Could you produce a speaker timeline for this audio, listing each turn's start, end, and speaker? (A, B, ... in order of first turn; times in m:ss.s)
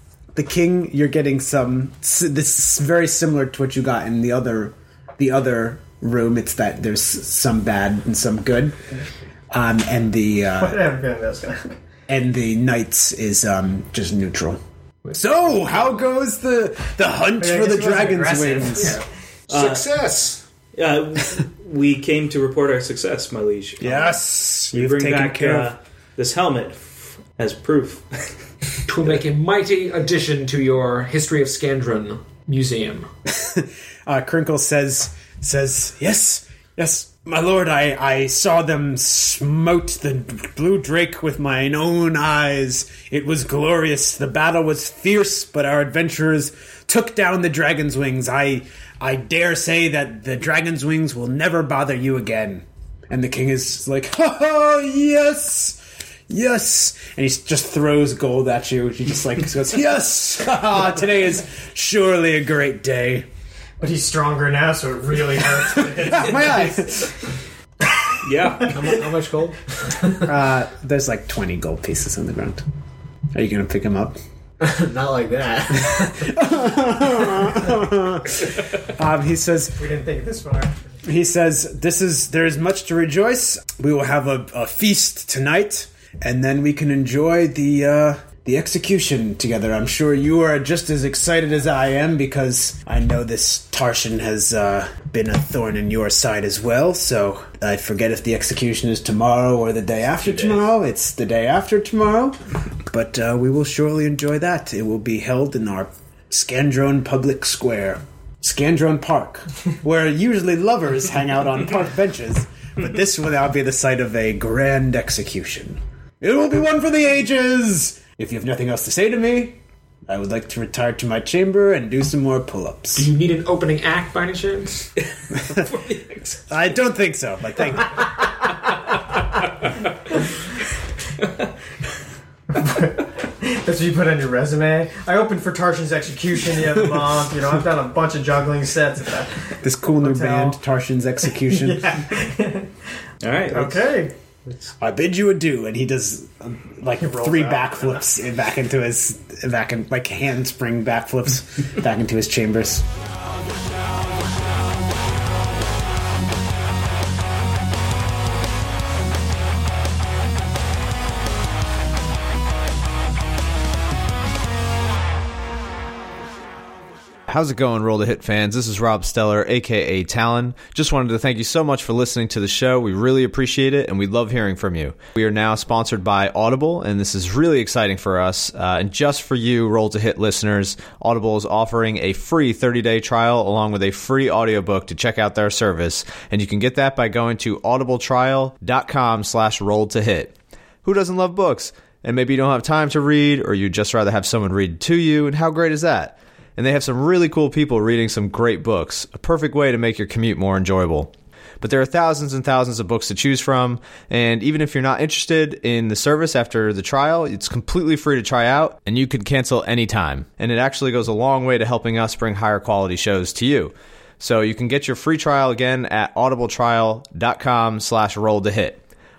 0:00.3-0:08.8 A
0:09.5-0:10.8 A
0:10.6-0:11.8 B
0:12.1-0:14.6 A
0:15.1-0:19.0 A
0:17.4-0:19.0 B
0:19.5-0:19.8 C
0:19.5-0:20.4 D
0:20.7-0:24.2 C
0:23.8-0:25.7 A
0:24.7-0:28.3 C
0:28.8-0:33.1 D
0:33.2-1:03.2 A
1:03.8-1:06.9 B
1:05.8-1:07.1 A
1:08.2-1:08.8 C
1:08.7-1:10.3 E
1:10.2-1:12.6 A
1:13.3-1:14.2 A
1:14.6-1:16.3 E
1:15.7-1:19.8 A
1:19.8-1:20.7 B
1:21.0-2:03.1 A
1:40.2-1:40.6 E
2:02.9-2:04.9 D
2:05.6-2:06.4 C
2:06.5-2:08.3 A
2:12.5-2:20.6 B
2:19.6-2:22.0 A
2:21.5-2:22.7 B
2:23.2-2:23.9 C
2:23.5-2:24.1 B
2:24.8-2:32.8 A
2:27.0-2:28.0 B
2:47.3-3:38.8 E